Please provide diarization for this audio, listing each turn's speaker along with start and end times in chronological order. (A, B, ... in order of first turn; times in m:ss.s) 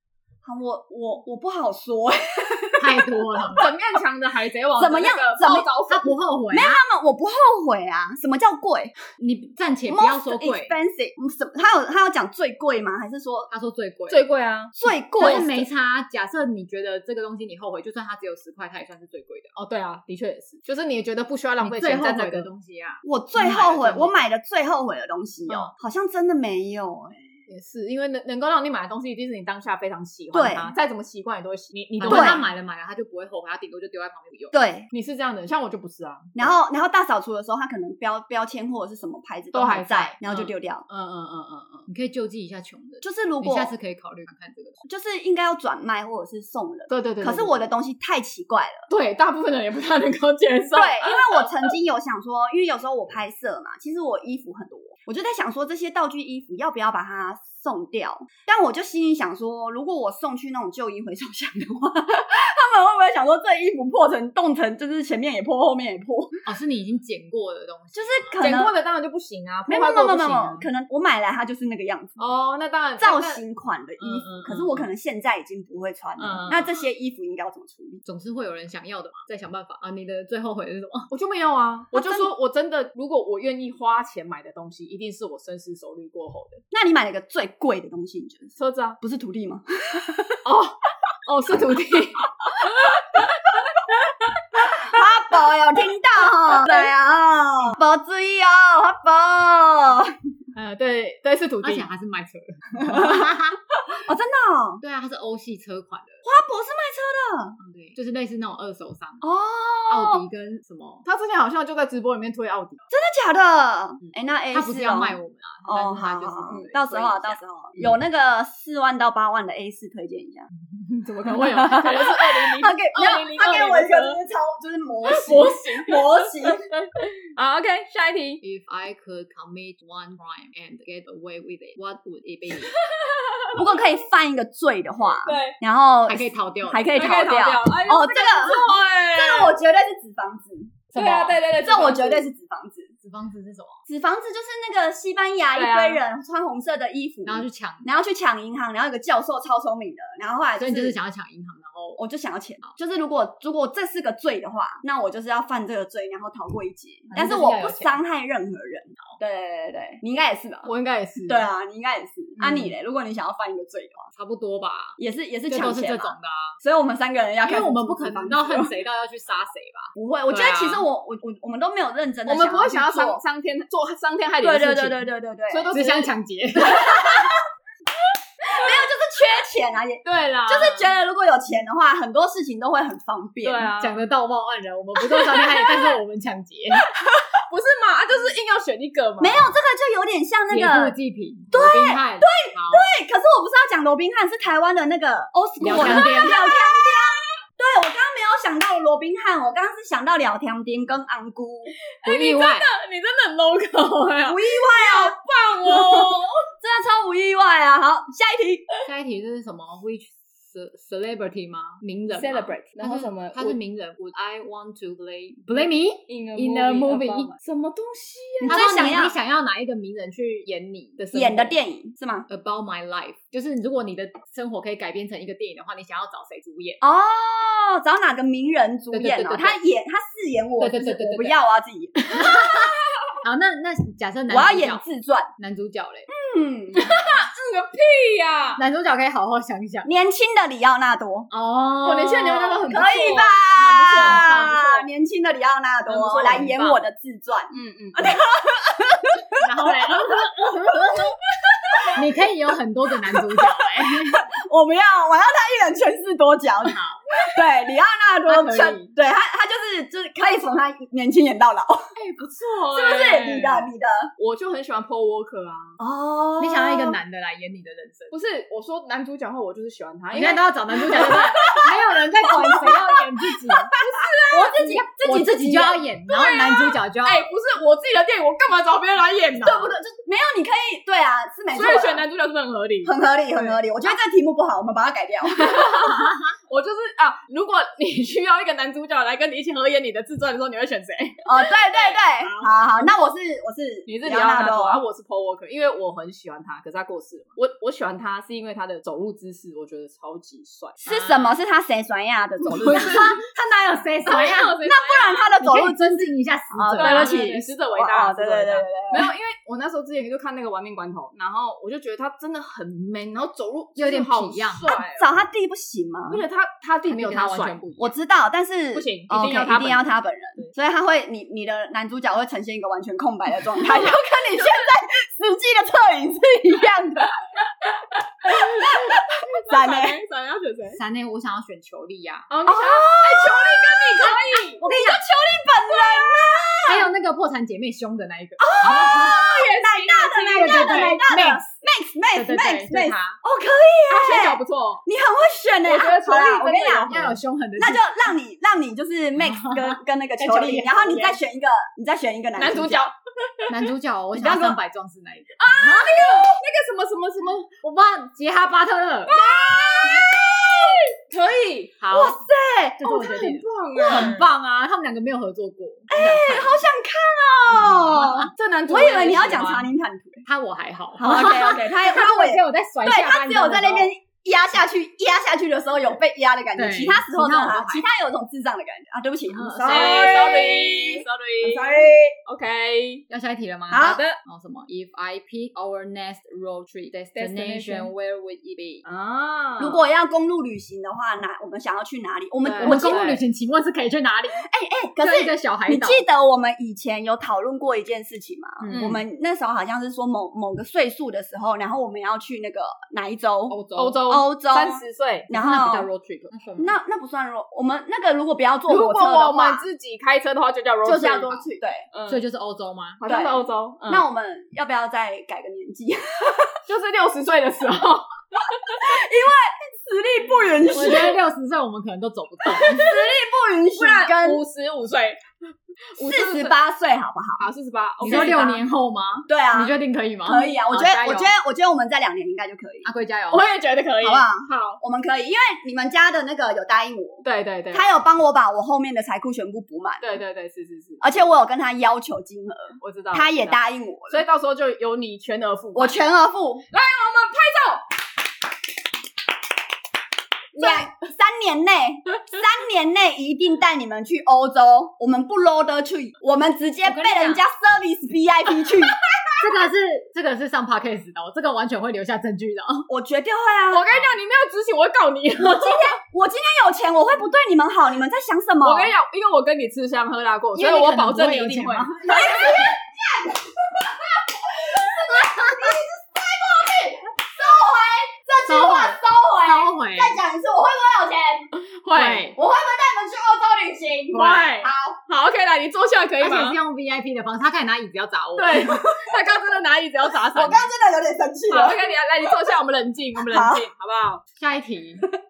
0:00.4-0:03.6 A
0:02.8-0:03.7 B
0:03.6-0:06.2 C
0:04.8-0:05.7 A
0:05.9-0:06.8 B
0:06.5-0:08.9 A
0:09.2-0:10.7 B
0:09.9-0:13.5 A
0:13.5-0:14.2 B
0:14.1-0:15.5 C
0:14.8-0:15.6 A
0:15.2-0:19.5 B
0:19.6-0:22.5 C
0:21.6-0:24.2 B
0:23.0-0:27.2 A
0:27.5-0:32.4 C
0:30.3-0:30.7 A
0:32.0-0:34.6 B
0:32.1-0:32.4 A
0:34.5-0:34.9 A
0:34.9-0:36.6 C
0:36.4-0:40.9 A
0:39.5-0:41.9 C
0:41.9-0:44.8 B
0:43.0-0:43.7 A
0:44.9-0:48.9 A
0:46.9-0:47.7 C
0:48.9-0:51.7 C
0:50.7-1:06.4 A
1:06.4-1:08.4 B
1:08.0-1:08.7 A
1:08.4-1:10.7 C
1:09.7-1:12.2 A
1:12.2-1:13.4 C
1:13.0-1:18.0 A
1:14.0-1:14.9 C
1:16.2-1:16.7 C
1:18.0-1:21.1 B
1:21.1-1:26.6 C
1:21.9-1:22.3 A
1:26.7-1:30.4 A
1:28.6-1:29.0 C
1:30.4-1:34.4 C
1:34.6-1:40.1 A
1:40.6-1:41.9 C
1:41.6-1:43.6 B
1:42.8-1:43.3 A
1:43.9-1:44.8 A
1:44.8-1:46.2 B
1:46.2-1:47.6 A
1:47.6-1:49.2 B
1:49.2-1:50.2 A
1:49.9-1:51.0 B
1:51.0-1:52.9 C
1:52.9-2:00.5 A
1:54.5-1:57.8 B
2:00.8-2:04.2 C
2:01.3-2:06.6 A
2:05.0-2:08.4 C
2:08.4-2:12.8 B
2:12.6-2:13.7 C
2:13.5-2:20.9 A
2:15.2-2:15.6 C
2:16.1-2:16.9 B
2:17.0-2:19.6 C
2:20.9-2:21.4 B
2:21.0-2:22.3 C
2:21.6-2:22.9 A
2:23.0-2:23.8 B
2:23.9-2:31.0 A
2:25.6-2:26.0 C
2:27.3-2:27.9 B
2:30.6-2:32.0 B
2:32.0-2:40.7 A
2:37.1-2:38.0 B
2:40.7-2:41.5 C
2:41.3-2:44.1 A
2:42.4-2:42.7 C
2:44.2-2:45.0 B
2:45.0-2:48.7 A
2:45.5-2:46.6 B
2:47.4-2:50.8 B
2:50.0-2:53.2 A
2:52.3-2:56.1 C
2:54.4-2:55.7 A
2:55.7-2:57.4 B
2:56.6-2:57.4 A
2:58.4-3:03.7 A
3:00.0-3:00.9 C
3:03.4-3:04.0 C
3:03.8-3:06.9 B
3:05.3-3:05.9 C
3:07.4-3:09.5 C
3:09.2-3:11.0 A
3:10.5-3:12.9 B
3:11.5-3:21.8 A
3:15.6-3:16.4 B
3:15.6-3:17.2 C
3:22.0-3:26.4 C
3:22.0-3:22.7 B
3:24.2-3:28.6 A
3:28.8-3:37.3 B
3:32.1-3:33.6 C
3:36.1-3:38.9 C
3:38.4-3:39.2 A
3:38.4-3:41.5 B
3:41.1-3:42.3 A
3:42.3-3:46.8 B
3:46.8-3:52.6 A
3:48.9-3:49.6 B
3:50.6-3:51.4 B
3:52.1-3:54.8 B
3:54.3-3:55.3 A
3:55.4-3:56.1 B
3:56.1-3:57.0 A
3:56.7-3:58.6 C
3:58.6-3:59.9 B
3:59.8-4:01.3 A
4:01.3-4:02.7 B
4:01.8-4:04.9 C
4:02.6-4:12.0 A
4:04.0-4:04.6 B
4:05.9-4:06.5 C
4:06.0-4:06.8 B
4:07.5-4:08.2 C
4:09.4-4:11.1 B
4:11.9-4:14.2 B
4:13.1-4:21.9 A
4:16.6-4:17.0 B
4:18.3-4:18.8 C
4:22.0-4:25.8 C
4:22.7-4:24.1 A
4:25.8-4:27.0 A
4:26.4-4:28.1 B
4:28.1-4:31.7 C
4:30.1-4:33.7 B
4:30.9-4:35.8 A
4:33.8-4:34.8 C
4:34.4-4:37.3 B
4:36.1-4:39.7 C
4:39.4-4:42.1 A
4:41.5-4:43.6 C
4:42.8-4:46.1 A
4:45.3-4:52.5 C
4:51.2-4:54.8 A
4:53.9-5:00.8 C
5:00.8-5:03.2 A
5:00.9-5:01.4 B
5:02.5-5:03.1 C
5:02.6-5:04.6 B
5:04.1-5:05.3 C
5:04.6-5:09.1 A
5:05.4-5:07.4 B
5:06.8-5:15.1 C
5:13.8-5:14.7 B
5:14.7-5:16.2 A
5:16.1-5:17.8 C
5:16.9-5:17.9 B
5:17.8-5:27.1 A
5:18.7-5:19.9 C
5:23.6-5:24.1 C
5:28.2-5:30.8 C
5:28.2-5:30.0 A
5:30.8-5:32.3 B
5:32.3-5:34.6 C
5:32.5-5:36.9 A
5:34.6-5:35.0 B
5:36.6-5:39.2 B
5:38.4-5:52.9 A
5:38.6-5:41.0 C
5:40.3-5:41.5 B
5:42.1-5:43.2 B
5:43.9-5:44.8 C
5:45.7-5:47.2 C
5:46.9-5:47.9 B
5:49.2-5:51.2 B
5:52.4-5:53.6 C
5:53.5-5:56.0 B
5:54.1-5:54.6 A
5:55.4-5:57.5 C
5:56.0-5:56.4 A
5:57.6-5:59.1 B
5:59.1-6:01.7 C
5:59.1-6:00.8 A
6:01.8-6:02.2 B
6:01.9-6:03.1 A
6:02.8-6:06.6 B
6:02.8-6:04.2 C
6:03.8-6:04.2 A
6:05.9-6:10.2 A
6:07.5-6:08.3 B
6:08.4-6:09.7 C
6:10.2-6:13.9 B
6:11.0-6:22.2 A
6:16.6-6:17.9 B
6:19.3-6:20.2 B
6:19.6-6:23.0 C
6:23.1-6:28.8 B
6:23.7-6:24.0 A
6:23.8-6:24.1 C
6:27.2-6:27.9 C
6:28.8-6:29.8 C
6:29.6-6:33.1 A
6:32.4-6:33.2 C
6:32.6-6:34.4 B
6:34.4-6:45.9 A
6:35.0-6:36.0 B
6:38.6-6:38.9 B
6:38.7-6:39.0 C
6:43.5-6:44.0 B
6:43.8-6:45.3 C
6:45.3-6:46.8 B
6:46.6-6:49.6 A
6:48.7-6:52.2 C
6:50.9-6:51.5 B
6:50.9-6:51.9 A
6:52.1-6:53.0 B
6:53.0-6:54.0 C
6:53.0-6:56.6 A
6:56.7-6:58.8 C
6:58.7-7:01.2 A
7:00.7-7:02.9 B
7:02.5-7:04.4 A
7:03.8-7:05.2 C
7:06.0-7:06.5 C
7:06.0-7:07.5 A
7:07.4-7:08.6 C
7:08.0-7:08.6 A
7:08.0-7:11.3 B
7:09.3-7:12.9 A
7:12.8-7:13.5 B
7:13.3-7:14.8 C
7:14.0-7:20.2 A
7:17.2-7:17.8 C
7:20.0-7:21.2 C
7:21.0-7:24.2 A
7:22.8-7:26.0 C
7:25.8-7:26.6 A
7:26.7-7:27.8 C
7:30.6-7:39.0 A
7:30.6-7:30.9 C
7:36.8-7:37.4 B
7:39.4-7:42.9 B
7:42.9-7:43.9 A
7:43.7-7:46.0 C
7:45.6-7:48.9 A
7:48.6-7:52.8 C
7:50.6-7:52.0 B
7:51.9-8:01.5 A
7:58.5-8:00.2 B
8:01.6-8:02.3 C
8:01.9-8:02.4 B
8:02.3-8:05.0 A
8:04.1-8:04.6 B
8:04.1-8:06.6 C
8:06.2-8:08.8 B
8:08.4-8:10.7 C
8:08.5-8:09.2 A
8:10.3-8:12.5 A
8:11.5-8:14.2 C
8:13.2-8:13.6 A
8:14.4-8:15.1 B